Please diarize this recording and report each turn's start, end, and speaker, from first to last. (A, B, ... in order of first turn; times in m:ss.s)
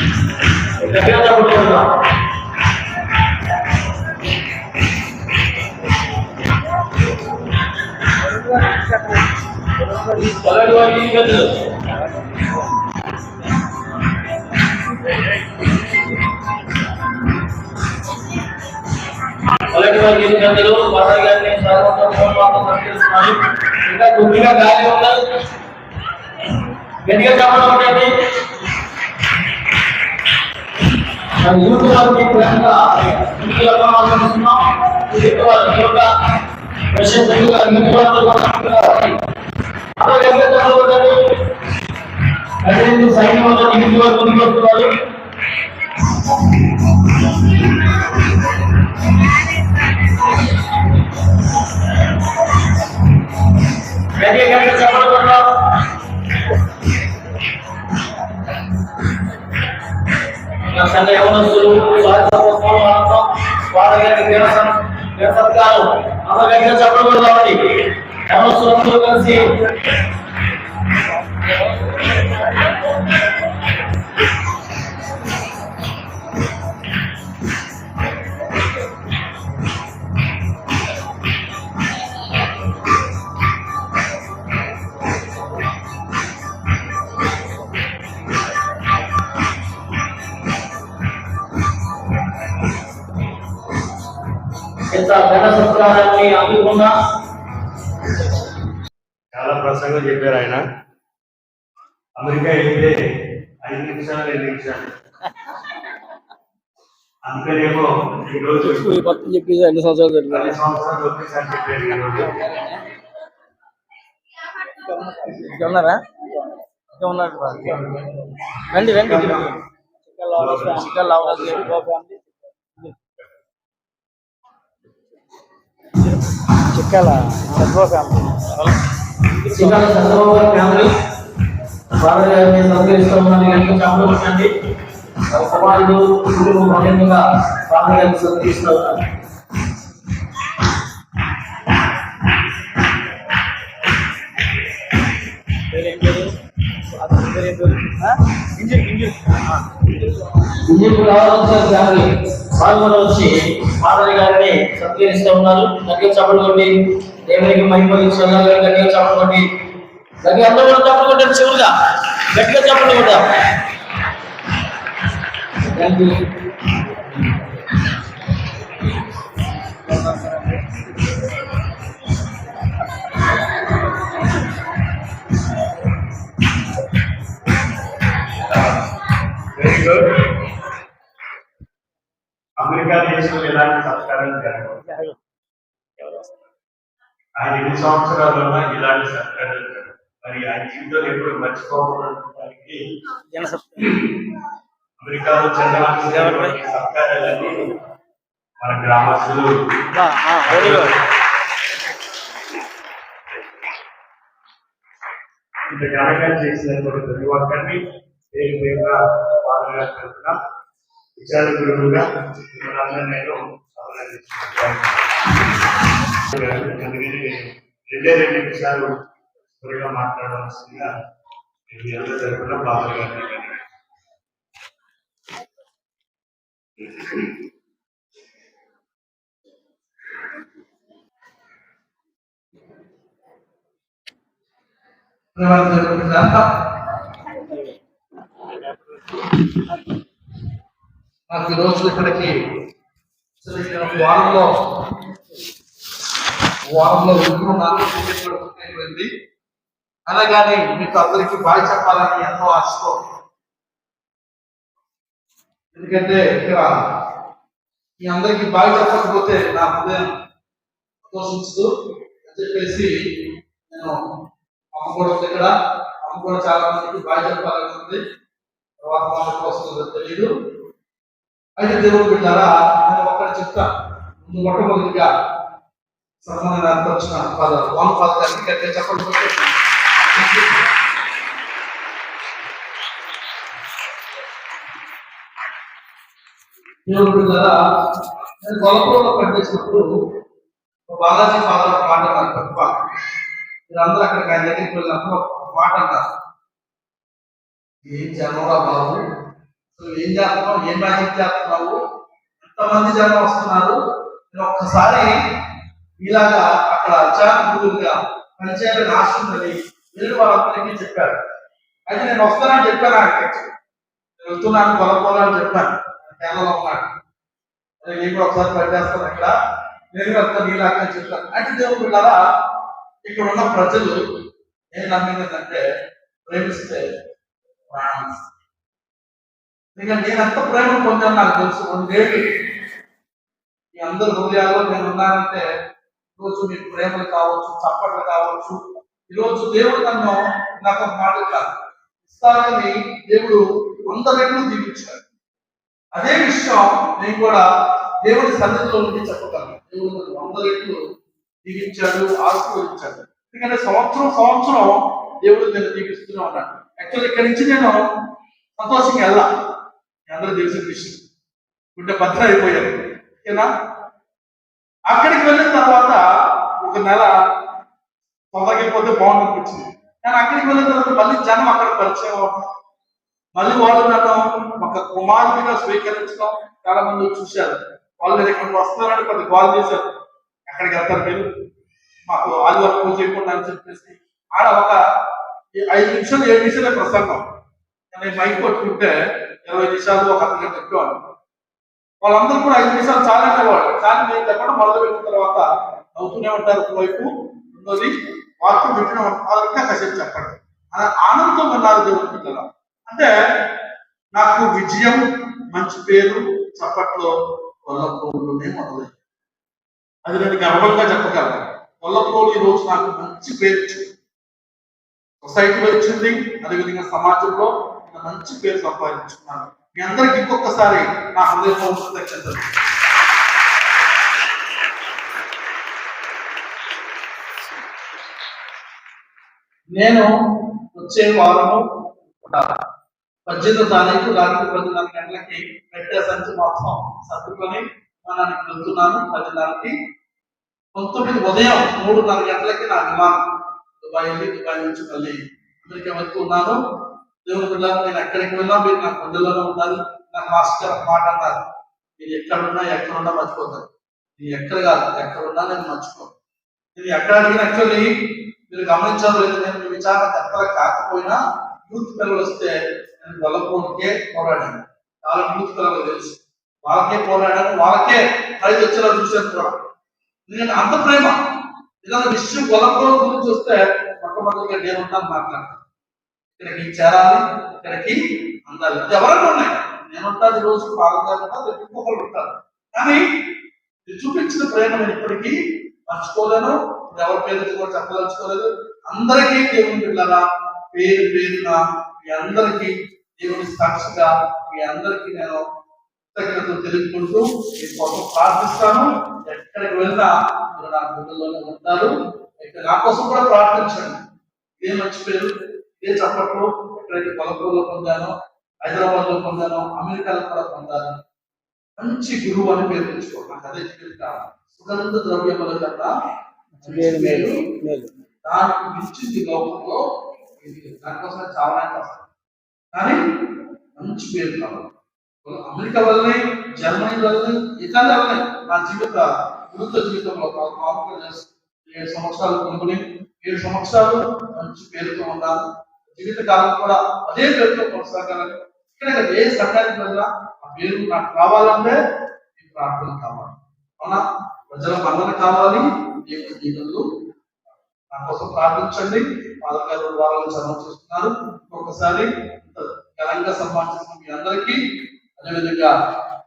0:00.8-0:01.9 A
0:08.4-0:08.9 B
0:09.9-0:10.3 B
0:10.3-0:11.6 A
0:19.7-0:25.2 A
0:27.0-0:28.1 A
0:31.4-0:36.1 A
0:36.9-0:39.2 A
0:40.0-0:41.4 A
0:42.6-0:44.9 A
0:54.2-0:55.6 A
1:00.7-1:09.6 A
1:34.9-1:36.9 A
1:39.3-1:40.6 C
1:42.2-1:43.0 C
1:43.6-1:44.9 C
1:47.2-1:49.0 C
1:48.6-1:50.5 A
1:50.3-1:52.3 C
1:52.2-1:52.8 B
1:54.8-1:55.8 B
1:55.4-1:56.0 A
1:57.0-1:57.8 A
1:57.6-1:58.0 B
1:58.7-1:59.5 A
1:59.0-1:59.5 C
2:00.1-2:02.9 B
2:00.3-2:01.7 C
2:01.0-2:01.6 A
2:06.7-2:08.8 B
2:09.4-2:09.8 B
2:09.5-2:10.9 A
2:12.0-2:14.5 A
2:15.3-2:19.0 A
2:25.7-2:26.4 B
2:27.0-2:29.9 B
2:30.6-2:39.5 A
2:40.2-2:41.7 A
2:42.3-2:43.2 A
2:45.7-2:46.2 A
2:59.5-3:00.3 C
3:02.6-3:04.8 C
3:04.9-3:05.1 B
3:07.4-3:12.8 C
3:13.4-3:14.0 B
3:15.0-3:17.7 C
3:16.2-3:16.5 B
3:18.6-3:19.5 C
3:20.1-3:20.9 B
3:20.4-3:21.0 C
3:25.7-3:30.4 C
3:31.2-3:35.4 C
3:36.3-3:39.1 C
3:39.6-3:40.9 C
3:41.7-3:43.7 C
3:46.8-3:47.3 C
3:55.4-3:56.5 D
4:01.3-4:02.5 D
4:03.4-4:04.6 D
4:06.7-4:09.1 D
4:10.1-4:13.0 D
4:15.7-4:16.8 D
4:18.0-4:20.1 D
4:21.0-4:21.7 D
4:22.2-4:22.9 D
4:23.7-4:24.0 D
4:24.8-4:25.5 D
4:26.0-4:28.0 D
4:28.8-4:30.3 D
4:31.6-4:33.7 D
4:34.2-4:35.1 D
4:36.2-4:39.6 D
4:40.1-4:40.6 D
4:46.9-4:47.6 D
4:48.4-4:49.9 D
4:50.9-4:52.8 D
4:53.7-4:56.0 D
4:57.8-4:59.0 D
4:59.8-5:01.8 D
5:02.4-5:03.8 D
5:04.3-5:05.2 D
5:06.0-5:11.2 D
5:11.9-5:13.5 D
5:14.2-5:16.9 D
5:17.8-5:19.3 D
5:19.9-5:22.2 D
5:23.0-5:24.0 D
5:24.7-5:25.6 D
5:26.3-5:26.9 D
5:27.7-5:28.2 D
5:29.8-5:32.3 D
5:33.8-5:35.4 D
5:36.2-5:41.5 D
5:42.0-5:45.0 D
5:45.9-5:47.4 D
5:48.0-5:50.8 D
5:51.4-5:57.8 D
5:58.6-5:59.3 D
6:00.1-6:01.0 D
6:01.8-6:03.5 D
6:04.9-6:07.1 D
6:08.3-6:12.5 D
6:13.4-6:19.9 D
6:20.5-6:21.3 D
6:22.1-6:24.8 D
6:25.6-6:27.2 D
6:27.9-6:31.0 D
6:32.0-6:43.1 D
6:44.1-6:47.1 D
6:47.6-6:48.9 D
6:50.1-6:53.9 D
6:55.2-7:02.6 D
7:09.7-7:12.5 D
7:13.3-7:19.8 D
7:20.7-7:23.3 D
7:23.8-7:26.6 D
7:27.2-7:31.4 D
7:32.0-7:33.6 D
7:34.2-7:36.1 D
7:36.8-7:38.0 D
7:38.5-7:49.6 D
7:50.3-7:51.2 D
7:51.8-7:55.6 D
7:56.4-8:03.1 D
8:03.9-8:15.4 D
8:16.1-8:24.0 D
8:24.6-8:31.0 D
8:31.8-8:35.9 D
8:36.6-8:37.9 B
8:36.6-8:37.5 D
8:38.2-8:39.8 D
8:40.4-8:42.0 D
8:42.7-8:43.0 D
8:43.8-8:44.7 D
8:45.2-9:01.8 D
9:02.4-9:06.8 D
9:07.9-9:14.6 D
9:15.2-9:15.7 D